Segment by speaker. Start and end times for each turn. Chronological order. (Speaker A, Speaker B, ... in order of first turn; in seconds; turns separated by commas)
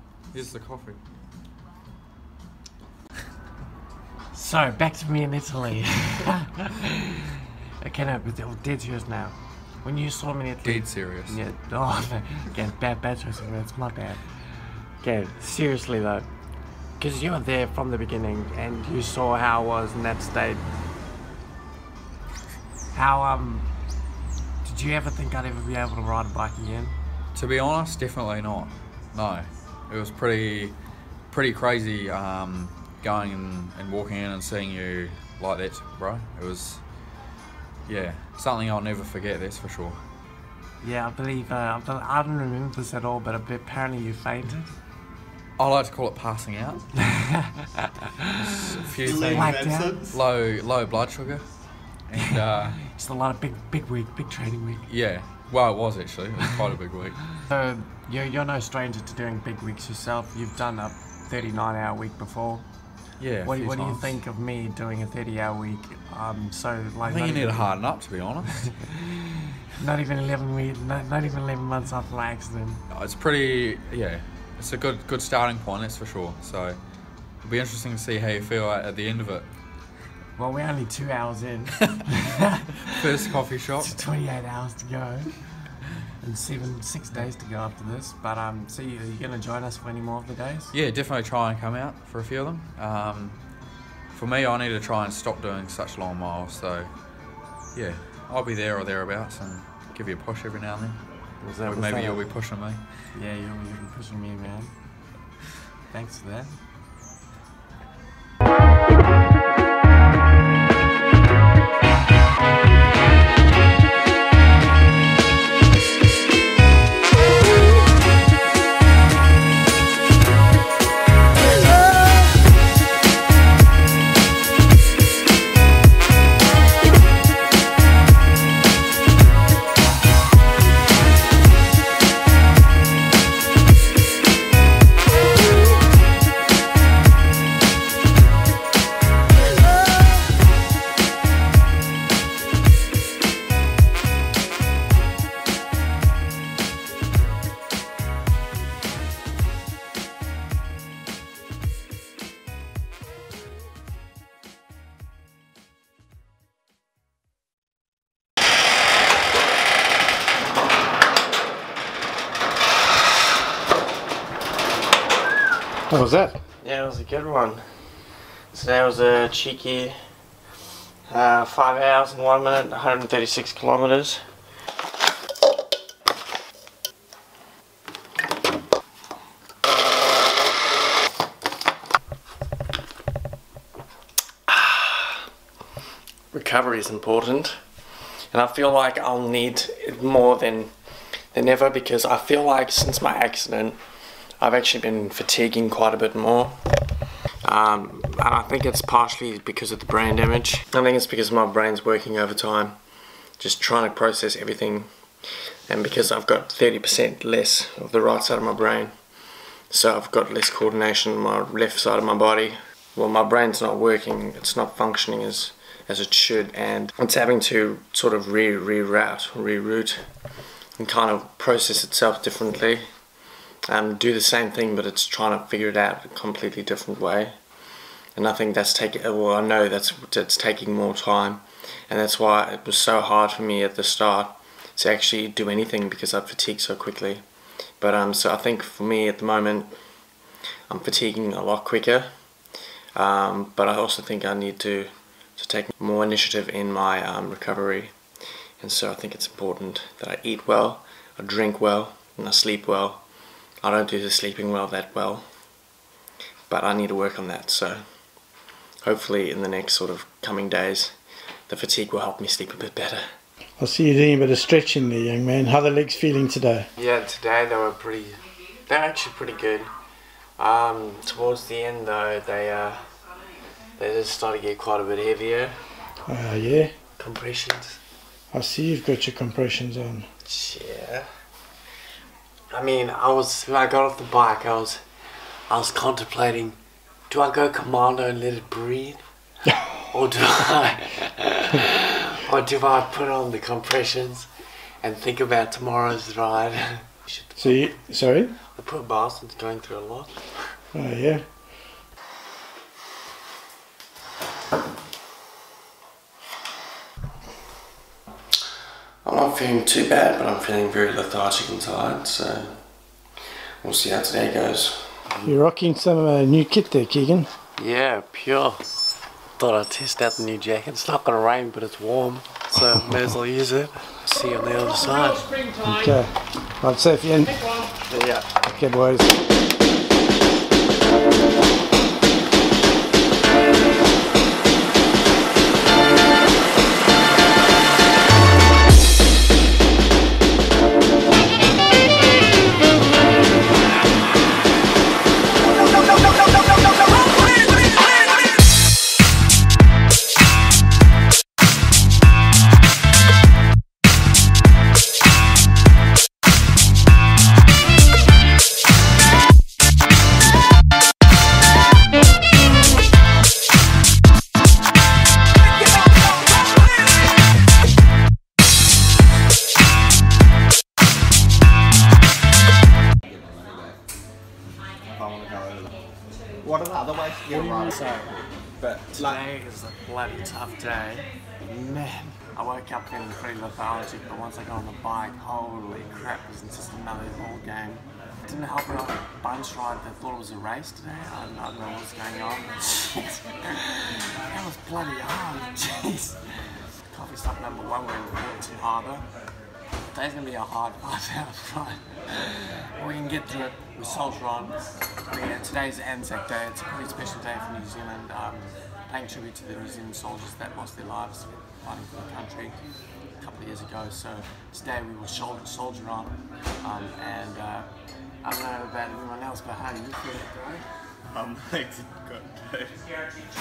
Speaker A: 0.3-1.0, Speaker B: 4.3-7.3, Speaker B: 7.8-14.3, Speaker A: 10.6-11.4, Speaker B: 15.0-16.3, Speaker B: 17.0-20.6, Speaker B: 22.9-23.7, Speaker B: 24.6-27.0, Speaker A: 27.4-30.8, Speaker A: 31.3-36.8, Speaker A: 37.9-40.0, Speaker B: 40.8-44.7, Speaker A: 45.6-47.0, Speaker B: 47.0-50.1, Speaker A: 48.4-51.5, Speaker C: 49.0-50.2, Speaker A: 52.1-52.8, Speaker B: 52.2-54.9, Speaker A: 54.9-57.4, Speaker B: 57.4-62.6, Speaker A: 63.2-64.2, Speaker B: 63.4-67.7, Speaker A: 67.0-68.7, Speaker B: 68.5-72.8, Speaker A: 72.9-76.8, Speaker A: 77.4-79.5, Speaker B: 80.4-83.0, Speaker A: 82.9-84.0, Speaker B: 83.8-85.4, Speaker B: 86.2-90.7, Speaker A: 90.7-93.4, Speaker A: 94.1-96.9, Speaker A: 97.7-101.0, Speaker B: 101.4-102.3, Speaker A: 101.7-103.1, Speaker B: 103.1-104.7, Speaker B: 105.9-106.6, Speaker D: 165.9-166.4, Speaker B: 166.6-167.7, Speaker B: 168.5-170.0, Speaker B: 171.1-174.2, Speaker B: 184.5-185.3, Speaker B: 186.3-187.6, Speaker B: 188.3-190.7, Speaker B: 191.3-193.8, Speaker B: 194.4-196.6, Speaker B: 197.4-202.8, Speaker B: 203.4-204.9, Speaker B: 205.7-208.9, Speaker B: 209.7-220.1, Speaker B: 220.8-222.9, Speaker B: 223.7-227.4, Speaker B: 228.2-237.2, Speaker B: 237.8-239.8, Speaker B: 240.7-242.1, Speaker B: 243.0-247.9, Speaker B: 248.6-253.0, Speaker B: 253.6-255.3, Speaker B: 256.5-257.8, Speaker B: 258.8-260.9, Speaker B: 261.5-263.1, Speaker D: 263.6-266.7, Speaker B: 266.8-269.7, Speaker B: 270.4-272.9, Speaker B: 273.8-275.6, Speaker D: 276.1-276.7, Speaker B: 277.0-277.8, Speaker D: 278.3-280.1, Speaker B: 280.2-281.1, Speaker B: 282.5-284.8, Speaker B: 285.5-286.6, Speaker B: 287.1-289.0, Speaker B: 289.9-294.3, Speaker B: 294.8-297.7, Speaker D: 297.4-298.4, Speaker B: 298.6-300.2, Speaker D: 300.7-301.2, Speaker B: 309.1-312.6, Speaker B: 313.6-315.3, Speaker D: 315.2-317.3, Speaker B: 317.6-318.6, Speaker B: 319.4-325.3, Speaker D: 325.6-327.6, Speaker B: 327.9-328.3, Speaker D: 328.4-329.2, Speaker C: 373.1-373.8, Speaker C: 374.9-375.7, Speaker C: 376.4-377.8, Speaker B: 377.3-378.1, Speaker C: 378.6-379.2, Speaker B: 378.9-396.2, Speaker B: 396.9-399.1, Speaker B: 399.9-412.6, Speaker B: 413.2-417.7, Speaker B: 418.2-420.6, Speaker C: 421.1-422.9